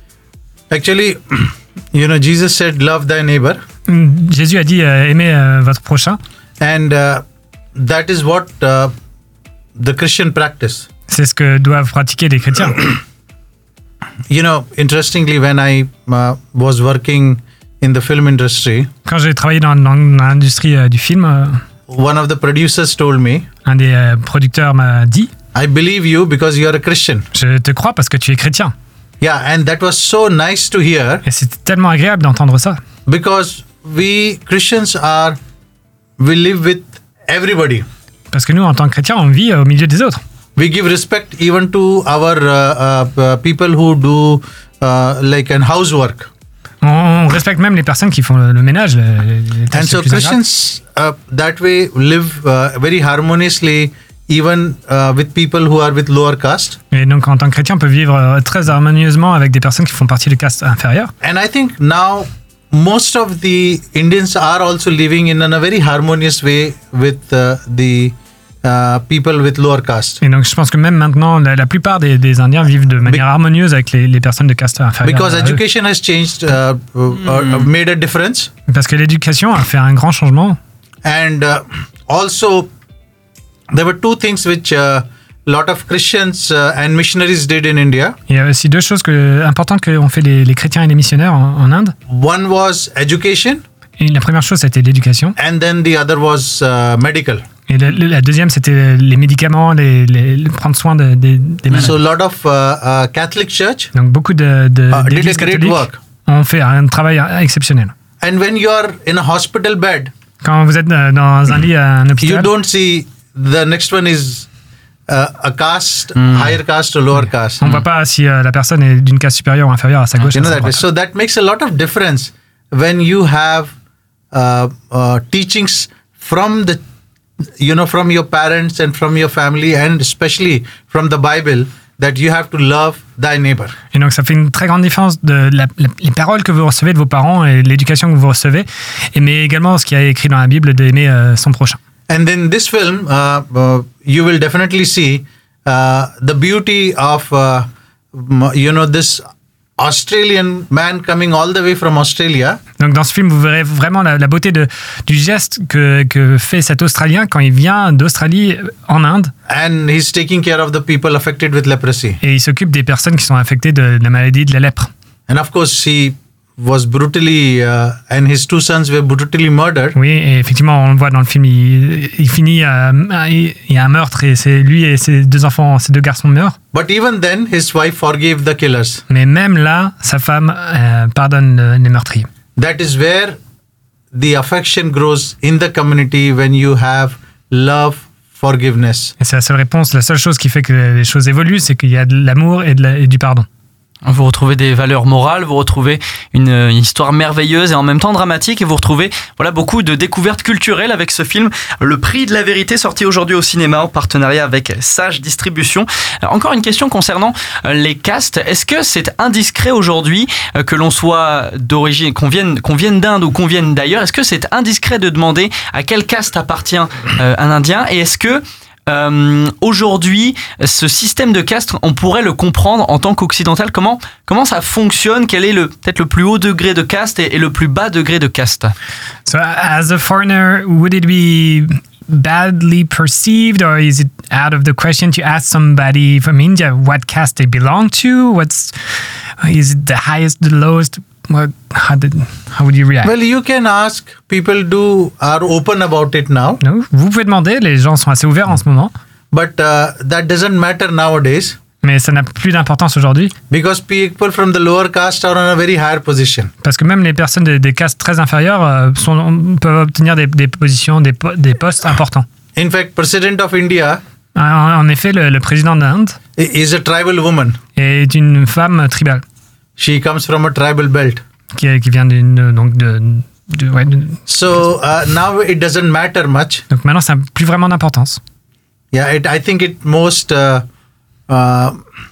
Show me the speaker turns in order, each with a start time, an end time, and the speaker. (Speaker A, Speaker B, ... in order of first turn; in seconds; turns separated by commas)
Speaker A: 0.7-3.6, Speaker B: 3.9-6.2, Speaker A: 6.6-7.2, Speaker A: 7.7-8.9, Speaker A: 9.8-10.9, Speaker B: 11.1-12.9, Speaker A: 14.3-18.9, Speaker B: 19.1-21.6, Speaker A: 21.9-23.5, Speaker B: 23.6-25.3, Speaker A: 25.5-27.3, Speaker B: 27.3-28.7, Speaker A: 29.2-31.2, Speaker B: 31.2-32.8, Speaker A: 33.0-35.4, Speaker A: 36.2-37.9, Speaker B: 38.3-40.2, Speaker A: 40.5-46.3, Speaker B: 46.8-50.4, Speaker A: 49.7-56.8, Speaker B: 56.9-61.1, Speaker A: 61.2-70.2, Speaker B: 70.2-75.6, Speaker A: 75.0-78.5, Speaker B: 78.7-80.6, Speaker A: 81.0-82.7, Speaker A: 83.7-88.2, Speaker B: 88.3-91.9, Speaker A: 92.1-93.6, Speaker B: 94.0-95.3, Speaker A: 95.4-97.4, Speaker B: 97.7-101.9, Speaker A: 101.7-103.9, Speaker B: 103.9-107.9, Speaker A: 104.9-106.0, Speaker A: 108.2-110.1, Speaker B: 110.4-112.5, Speaker A: 112.2-114.5, Speaker A: 115.1-117.6, Speaker C: 116.2-116.5, Speaker B: 117.6-120.8, Speaker A: 120.3-123.7, Speaker A: 124.3-126.8, Speaker A: 127.6-133.7, Speaker B: 133.9-141.8, Speaker A: 142.1-149.2, Speaker A: 149.8-152.6, Speaker B: 152.8-159.3, Speaker A: 159.5-162.2, Speaker B: 162.2-164.9, Speaker A: 165.3-170.0, Speaker B: 169.9-176.6, Speaker A: 176.7-179.0, Speaker B: 179.1-182.3, Speaker A: 182.6-183.4, Speaker A: 184.1-189.1, Speaker B: 189.2-193.5, Speaker C: 194.0-228.7, Speaker B: 229.2-238.7, Speaker B: 239.4-243.1, Speaker A: 243.0-246.6, Speaker B: 246.6-248.9, Speaker A: 249.3-251.6, Speaker B: 251.8-253.3, Speaker A: 253.5-256.5, Speaker B: 256.6-262.2, Speaker A: 262.6-264.0, Speaker B: 264.3-266.2, Speaker A: 266.4-267.6, Speaker B: 267.8-269.2, Speaker A: 269.8-271.2, Speaker B: 271.5-274.3, Speaker A: 274.3-276.6, Speaker B: 276.7-278.2, Speaker A: 278.9-280.6, Speaker A: 281.3-281.8